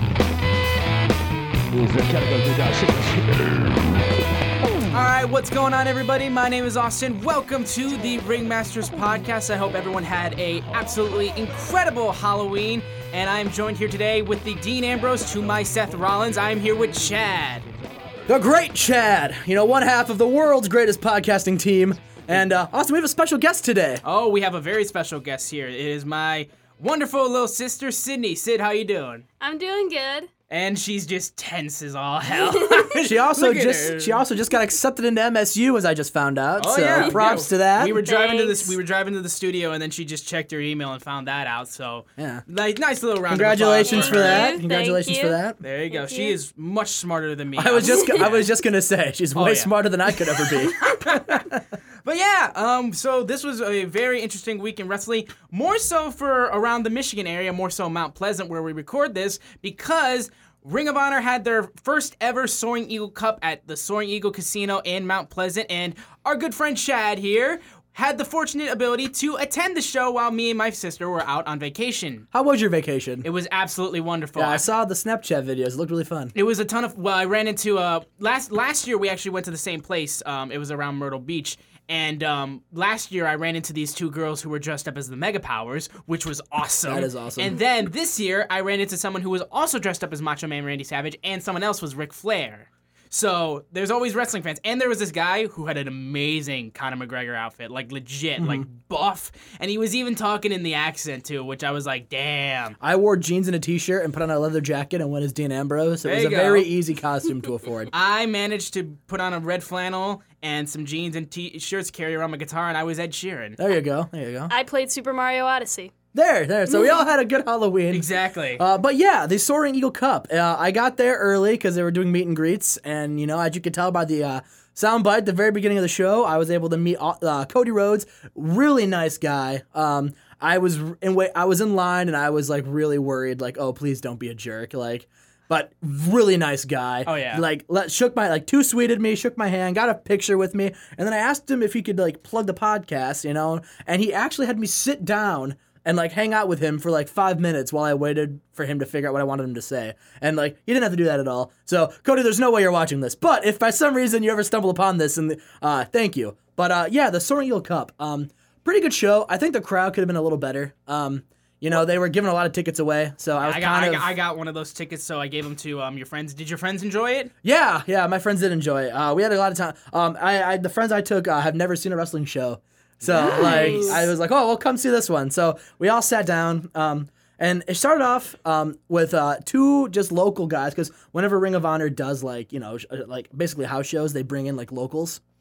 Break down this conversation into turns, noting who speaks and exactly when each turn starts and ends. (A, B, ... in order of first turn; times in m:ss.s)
0:01.7-0:03.1 A
0:04.9-0:17.6 B
0:18.3-0:24.0 A
0:24.0-0:29.2 B
0:29.4-0:30.3 C
0:30.5-0:34.2 B
0:32.3-0:32.9 C
0:33.0-0:38.0 A
0:36.6-0:44.6 B
0:36.9-0:37.2 C
0:38.0-0:38.8 C
0:42.2-0:42.4 A
0:43.3-0:45.6 A
0:43.8-0:45.4 C
0:45.6-0:48.5 B
0:45.9-0:46.4 C
0:47.6-0:51.6 A
0:49.3-0:51.5 B
0:52.0-1:12.2 B
1:12.3-1:13.2 A
1:13.2-1:14.6 B
1:14.4-1:16.3 A
1:16.3-1:42.8 B
1:26.8-1:27.6 A
1:38.4-1:38.7 A
1:42.8-1:47.9 A
1:46.0-1:46.7 B
1:47.9-1:53.6 B
1:53.6-1:54.5 A
1:54.5-1:55.9 C
1:56.1-1:58.0 A
1:57.9-1:58.6 B
1:58.6-2:44.1 A
2:17.0-2:17.4 B
2:43.4-2:47.3 B
2:47.4-3:05.2 A
2:53.0-2:54.0 B
2:53.1-2:54.1 C